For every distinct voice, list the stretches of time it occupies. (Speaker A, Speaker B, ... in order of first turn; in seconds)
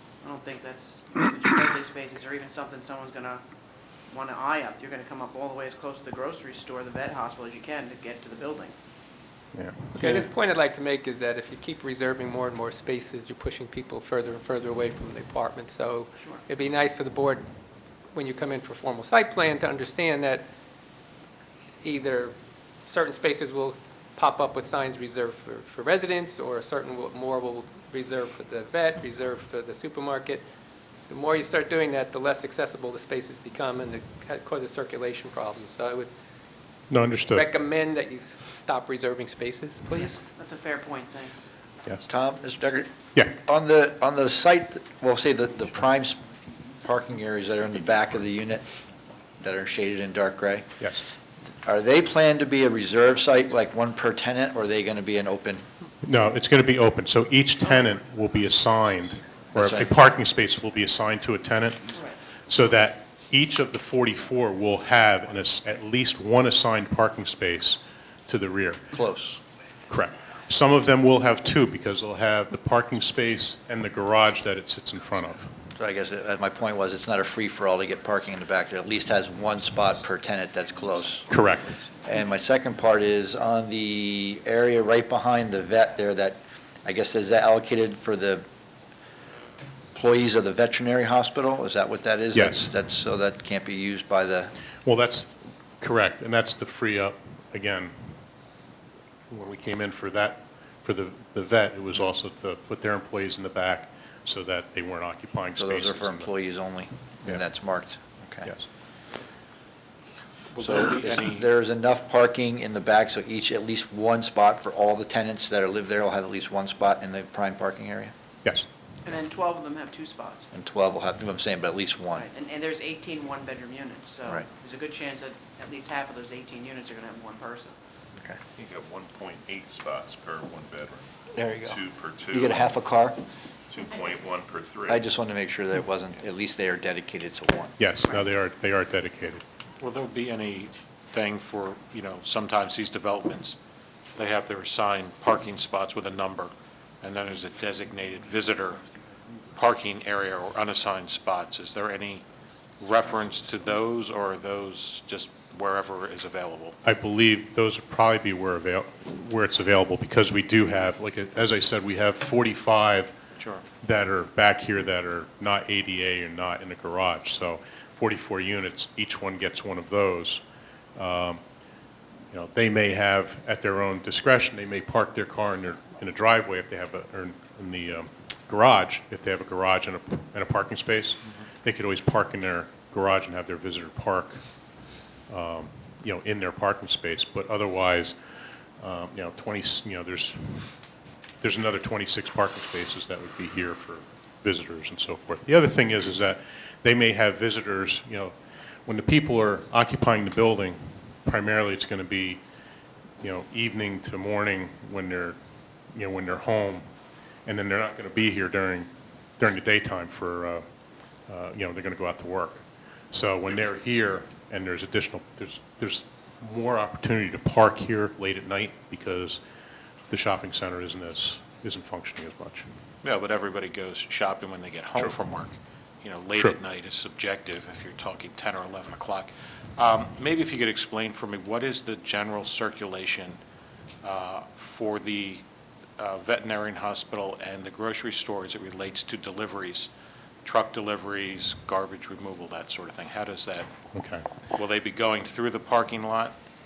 Speaker A: 0.2-3.4, 4.1-8.7, 16.2-16.4, 40.2-41.5, 119.0-120.5, 122.1-127.8
Speaker B: 9.5-10.3, 36.9-37.5, 56.0-61.9, 62.5-68.8, 69.9-75.5, 81.3-81.8, 92.3-92.7, 94.8-98.2, 99.3-106.3, 137.8-139.4, 156.8-163.1, 163.8-170.4, 171.0-171.4, 172.3-184.5, 185.3-188.2, 188.8-190.9, 191.4-198.3, 198.9-202.4, 203.2-205.4, 205.9-206.9, 207.5-210.6, 211.3-219.4, 220.1-222.7, 243.9-244.3
Speaker C: 9.9-17.4, 18.1-20.5, 21.8-30.4, 31.1-36.1, 37.3-40.2
Speaker D: 42.1-46.2, 46.8-48.7, 49.4-51.1, 51.6-55.6, 59.5-60.0, 68.9-69.4, 75.8-81.3, 82.0-88.5, 89.9-94.5, 105.6-108.5, 110.6-118.1, 120.5-122.3, 131.3-133.2, 134.9-137.8
Speaker E: 110.5-111.5, 139.8-143.6, 144.2-148.8, 149.5-152.2, 152.8-156.8, 163.4-163.6, 223.0-233.4, 234.0-235.4, 236.0-239.9, 240.4-243.7, 244.5-246.4
Speaker F: 128.6-132.7, 133.7-135.1